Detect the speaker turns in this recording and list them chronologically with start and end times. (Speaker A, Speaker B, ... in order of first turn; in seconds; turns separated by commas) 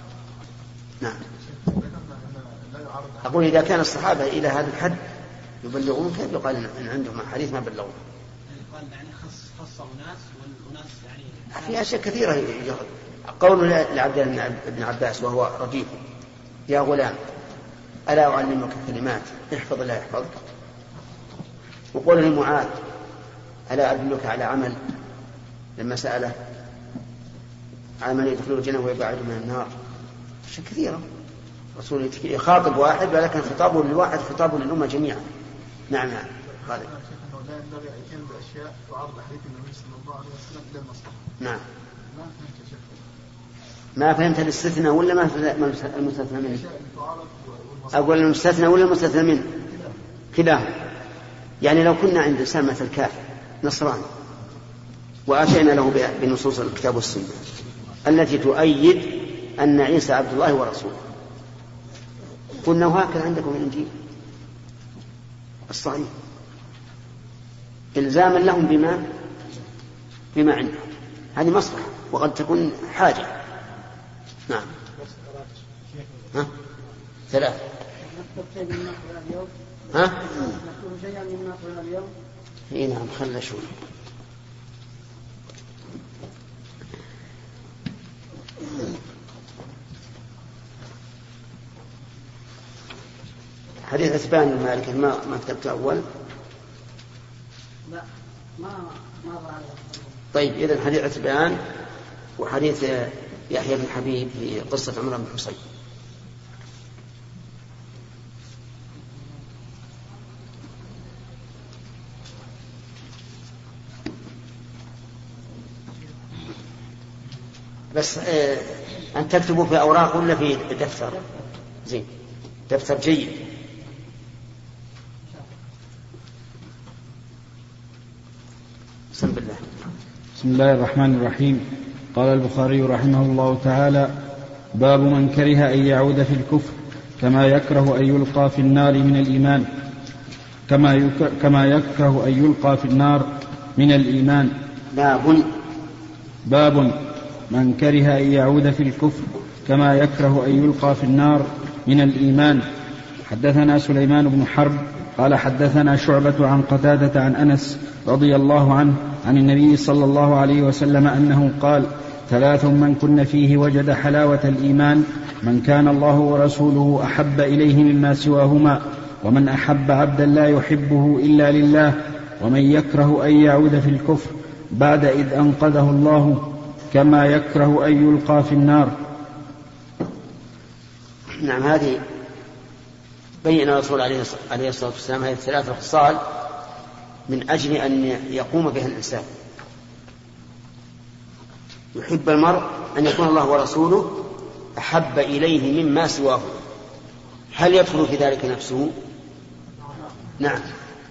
Speaker A: 1.4-3.6, Speaker B: 3.2-5.0, Speaker B: 5.6-8.0, Speaker C: 8.5-11.8, Speaker B: 11.5-16.0, Speaker B: 16.7-17.2, Speaker B: 18.1-20.4, Speaker B: 21.9-22.8, Speaker B: 23.7-24.8, Speaker B: 25.8-26.4, Speaker B: 28.0-29.7, Speaker B: 30.5-31.0, Speaker B: 31.8-35.3, Speaker B: 35.9-36.9, Speaker A: 36.5-41.2, Speaker A: 42.1-43.0, Speaker B: 44.0-46.6, Speaker A: 46.5-48.1, Speaker B: 47.9-49.5, Speaker A: 49.7-50.0, Speaker B: 50.3-50.8, Speaker B: 51.6-54.1, Speaker B: 55.3-57.4, Speaker B: 58.0-61.0, Speaker B: 62.6-63.9, Speaker B: 65.7-66.1, Speaker B: 68.0-69.1, Speaker B: 70.3-70.8, Speaker B: 71.4-73.3, Speaker A: 75.0-76.4, Speaker B: 77.3-77.6, Speaker D: 78.0-79.5, Speaker B: 79.9-80.2, Speaker D: 80.0-82.1, Speaker B: 82.7-83.7, Speaker B: 93.9-96.0, Speaker D: 98.6-100.2, Speaker B: 100.3-101.6, Speaker B: 102.4-105.6, Speaker B: 117.9-121.2, Speaker B: 122.7-123.4, Speaker B: 129.1-129.7, Speaker E: 130.4-134.1, Speaker E: 134.7-139.7, Speaker E: 140.7-144.6, Speaker B: 144.9-145.5, Speaker E: 146.4-152.7, Speaker E: 153.2-179.0, Speaker B: 181.4-182.0, Speaker B: 183.4-186.3, Speaker B: 187.3-189.3, Speaker B: 191.9-196.6, Speaker B: 197.5-198.9, Speaker B: 200.4-200.7